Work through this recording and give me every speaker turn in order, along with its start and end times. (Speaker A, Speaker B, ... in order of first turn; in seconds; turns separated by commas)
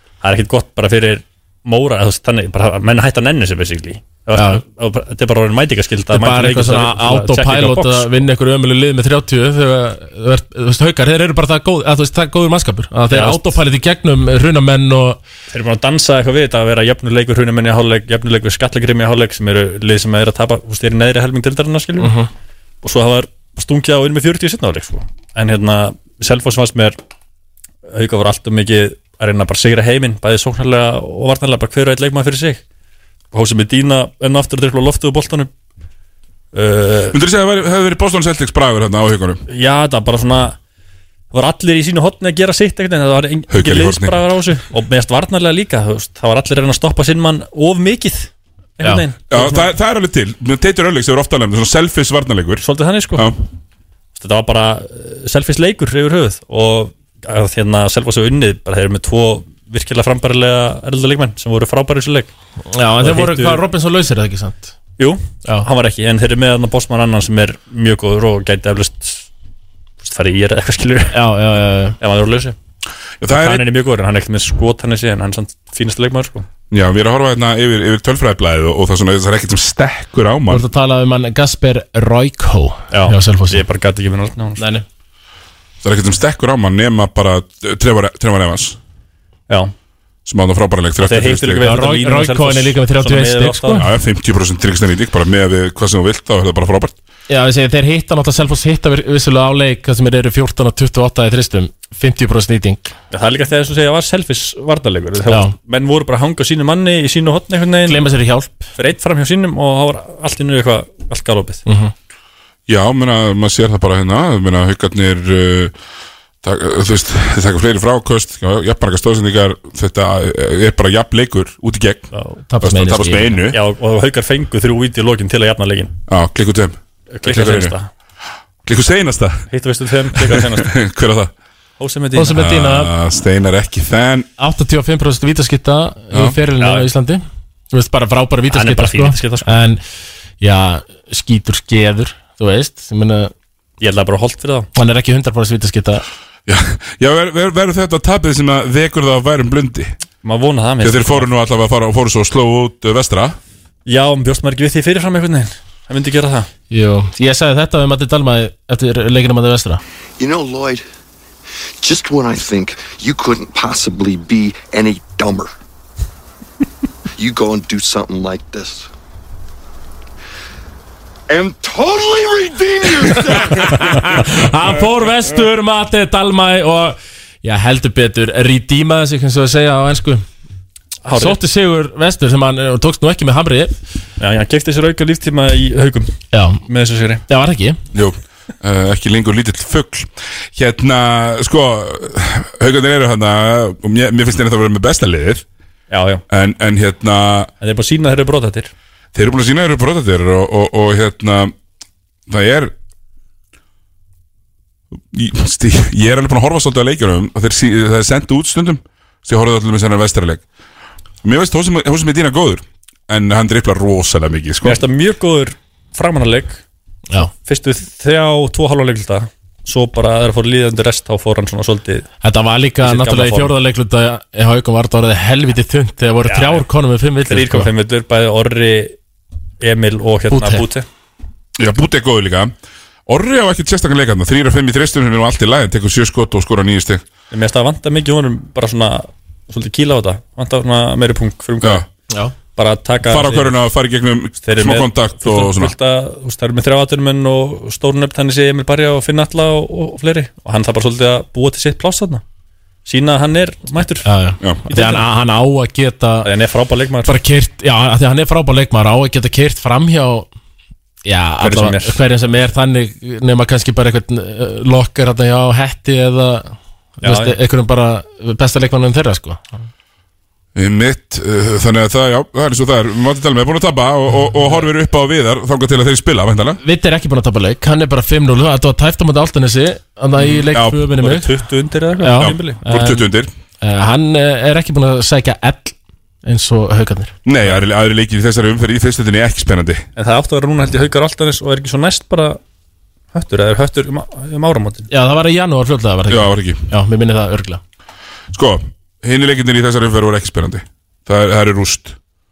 Speaker A: 0.2-8.2, Speaker B: 4.3-4.6, Speaker B: 6.1-15.2, Speaker A: 13.1-13.6, Speaker A: 15.5-22.1, Speaker B: 22.0-22.3, Speaker A: 22.8-27.0, Speaker A: 27.9-32.6, Speaker A: 33.3-35.5, Speaker A: 36.5-37.2, Speaker C: 37.1-39.4, Speaker A: 39.5-40.6, Speaker A: 41.3-49.7, Speaker C: 43.5-44.2, Speaker C: 49.3-53.4, Speaker A: 52.6-53.3, Speaker A: 54.1-62.3, Speaker B: 62.7-64.7, Speaker A: 63.0-63.6, Speaker A: 65.0-69.3, Speaker A: 70.0-71.2, Speaker B: 71.1-72.0, Speaker A: 72.0-72.6, Speaker C: 73.2-73.7, Speaker A: 73.3-76.5, Speaker C: 76.7-80.6, Speaker B: 80.5-83.6, Speaker A: 82.9-84.6, Speaker B: 84.6-84.8, Speaker C: 85.8-88.8, Speaker C: 90.3-91.6, Speaker A: 91.0-93.8, Speaker B: 91.6-93.8, Speaker C: 93.8-97.0, Speaker B: 97.3-102.9, Speaker A: 103.1-108.1, Speaker B: 105.3-105.5, Speaker B: 107.9-108.7, Speaker A: 108.8-111.6, Speaker B: 111.7-111.9, Speaker C: 112.7-115.8, Speaker C: 116.4-123.6, Speaker A: 122.1-122.4, Speaker B: 122.5-123.4, Speaker A: 123.5-125.9, Speaker C: 126.1-127.8, Speaker A: 127.1-127.9, Speaker C: 128.7-129.5, Speaker A: 129.5-130.7, Speaker C: 130.1-131.3, Speaker A: 131.8-132.4, Speaker B: 132.1-132.9, Speaker C: 132.3-134.3, Speaker B: 134.4-137.2, Speaker A: 136.6-136.9, Speaker B: 137.7-139.8, Speaker A: 138.5-139.6, Speaker B: 140.4-143.3, Speaker A: 143.8-144.7, Speaker B: 144.8-146.1, Speaker C: 146.5-149.9, Speaker A: 150.2-151.3, Speaker C: 150.8-153.4, Speaker A: 153.9-156.5, Speaker B: 156.7-159.8, Speaker D: 160.2-160.8, Speaker D: 161.8-165.5, Speaker D: 167.2-168.9, Speaker D: 171.3-174.0, Speaker B: 173.1-180.2, Speaker A: 181.1-181.4, Speaker B: 181.1-183.8, Speaker A: 184.2-186.1, Speaker B: 186.3-186.6, Speaker A: 186.6-187.2, Speaker B: 187.3-187.8, Speaker C: 187.9-195.4, Speaker A: 195.9-196.2, Speaker C: 196.3-197.5, Speaker A: 197.6-198.7, Speaker C: 199.1-201.5, Speaker C: 202.3-202.7, Speaker C: 205.1-210.4, Speaker C: 211.2-214.8, Speaker A: 214.6-216.6, Speaker A: 217.3-222.1, Speaker B: 222.2-227.7, Speaker A: 222.8-223.6, Speaker A: 226.3-226.7, Speaker A: 227.3-229.0, Speaker A: 229.6-230.8, Speaker B: 230.3-230.7, Speaker C: 231.6-232.5, Speaker C: 233.1-237.1, Speaker A: 237.3-241.9, Speaker A: 242.6-243.5, Speaker C: 243.1-245.7, Speaker A: 244.4-252.2, Speaker A: 252.9-254.1, Speaker B: 254.1-256.3, Speaker A: 254.7-255.1, Speaker A: 256.2-257.2, Speaker B: 257.1-260.3, Speaker B: 261.1-269.5, Speaker A: 261.4-262.0, Speaker A: 267.0-267.4, Speaker C: 270.6-276.6, Speaker B: 276.6-281.3, Speaker A: 280.2-282.6, Speaker C: 280.5-280.8, Speaker B: 282.0-283.1, Speaker C: 282.2-283.3, Speaker B: 283.6-287.1, Speaker C: 287.2-289.9, Speaker A: 290.0-292.4, Speaker A: 293.1-294.9, Speaker B: 294.9-297.6, Speaker C: 296.1-296.7, Speaker C: 298.3-302.0